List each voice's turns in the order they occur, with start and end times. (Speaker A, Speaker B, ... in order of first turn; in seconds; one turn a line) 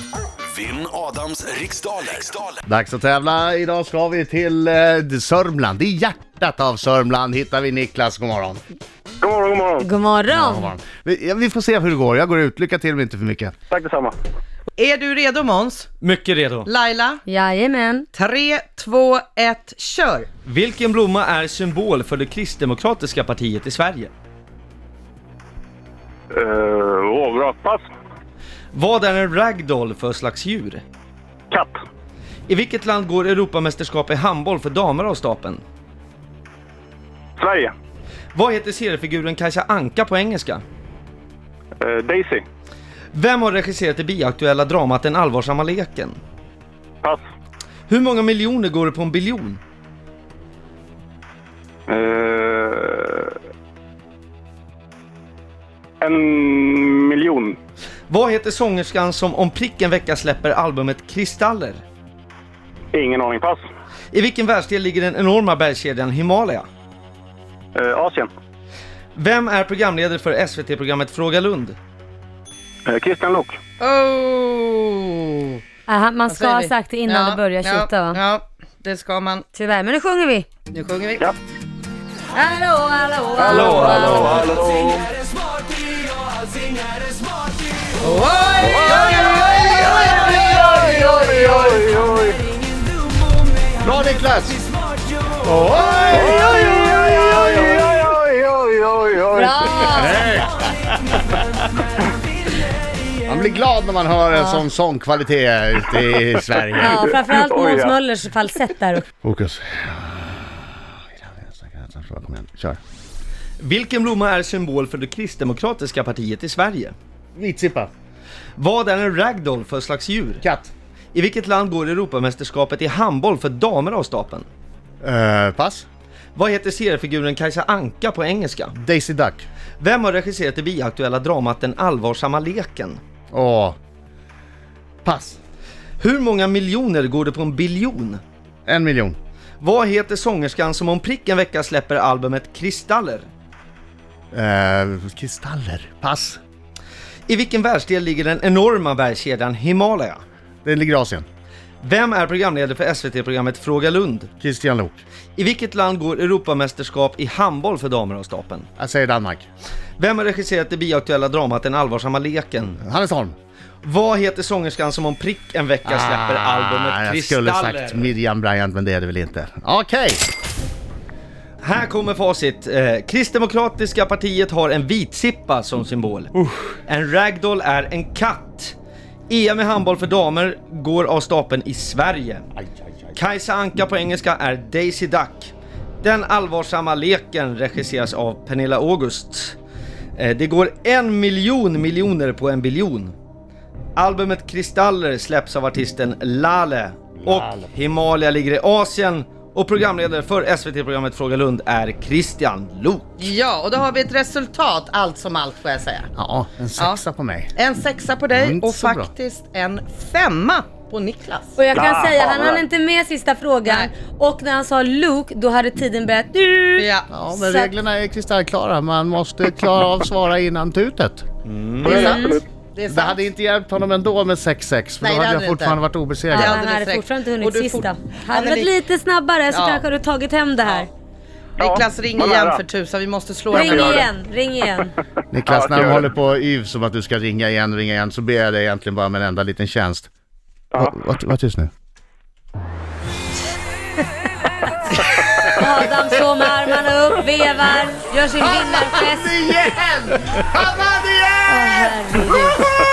Speaker A: 0.5-2.6
Speaker B: 2.6-8.6
Speaker C: 9.2-9.8
Speaker D: 9.8-10.7
Speaker B: 10.3-13.5
Speaker C: 13.7-14.1
Speaker E: 14.7-15.9
Speaker F: 16.0-16.7
Speaker E: 16.6-17.2
Speaker D: 17.2-18.1
Speaker E: 18.1-20.3
Speaker F: 20.4-24.1
Speaker C: 26.3-27.8
Speaker F: 28.7-30.8
Speaker F: 32.5-35.6
Speaker C: 37.4-37.7
Speaker F: 38.3-40.6
Speaker C: 41.8-42.4
Speaker F: 43.1-46.2
Speaker F: 47.9-49.6
Speaker C: 51.9-53.3
Speaker C: 56.0-57.6
Speaker F: 58.1-61.8
Speaker C: 62.9-63.6
Speaker F: 64.1-66.7
Speaker C: 67.8-68.3
Speaker F: 69.2-71.8
Speaker C: 72.9-73.5
Speaker E: 73.8-75.6
Speaker D: 75.9-78.2
Speaker E: 76.3-79.5
Speaker D: 79.5-80.5
Speaker E: 80.7-81.3
Speaker D: 82.3-84.3
Speaker F: 83.4-84.5
Speaker E: 83.5-84.6
Speaker E: 88.0-91.2
Speaker B: 89.0-92.0
Speaker B: 93.8-94.6
Speaker B: 95.4-98.0
Speaker D: 99.3-100.2
Speaker B: 99.9-101.3
Speaker B: 103.3-107.0
Speaker D: 104.3-104.6
Speaker D: 106.8-109.0
Speaker B: 109.2-112.8
Speaker F: 113.6-116.9
Speaker B: 117.3-117.9
Speaker F: 118.6-120.4
Speaker B: 120.4-120.7
Speaker F: 121.1-124.5
Speaker B: 125.0-125.8
Speaker F: 126.3-128.7
Speaker B: 128.8-129.4
Speaker F: 129.8-133.0
Speaker B: 133.3-133.8
Speaker B: 135.0-135.4
Speaker F: 136.0-138.2
Speaker B: 138.7-139.2
Speaker F: 139.6-143.3
Speaker B: 144.3-146.4
Speaker F: 147.3-150.2
Speaker B: 150.6-151.2
Speaker F: 151.8-154.3
Speaker B: 154.4-155.0
Speaker F: 155.4-158.7
Speaker B: 158.8-159.4
Speaker F: 160.0-162.8
Speaker B: 162.8-163.3
Speaker F: 163.8-168.1
Speaker B: 165.8-170.2
Speaker F: 171.6-176.3
Speaker F: 176.9-178.7
Speaker F: 179.3-182.5
Speaker F: 183.1-189.6
Speaker F: 190.2-193.1
Speaker F: 193.9-203.3
Speaker B: 197.2-197.7
Speaker E: 203.2-206.1
Speaker B: 206.2-207.5
Speaker E: 207.6-211.6
Speaker B: 208.3-209.1
Speaker D: 211.6-217.7
Speaker C: 211.8-212.2
Speaker E: 216.8-217.1
Speaker B: 217.1-221.2
Speaker F: 221.4-222.0
Speaker D: 221.8-222.4
Speaker E: 221.8-223.2
Speaker B: 222.9-226.6
Speaker E: 225.0-225.8
Speaker D: 226.3-230.9
Speaker E: 226.3-228.7
Speaker E: 229.5-229.8
Speaker E: 231.6-234.1
Speaker D: 233.5-234.9
Speaker B: 235.3-240.1
Speaker B: 240.7-241.7
Speaker D: 245.5-249.4
Speaker B: 248.4-252.2
Speaker D: 251.5-252.6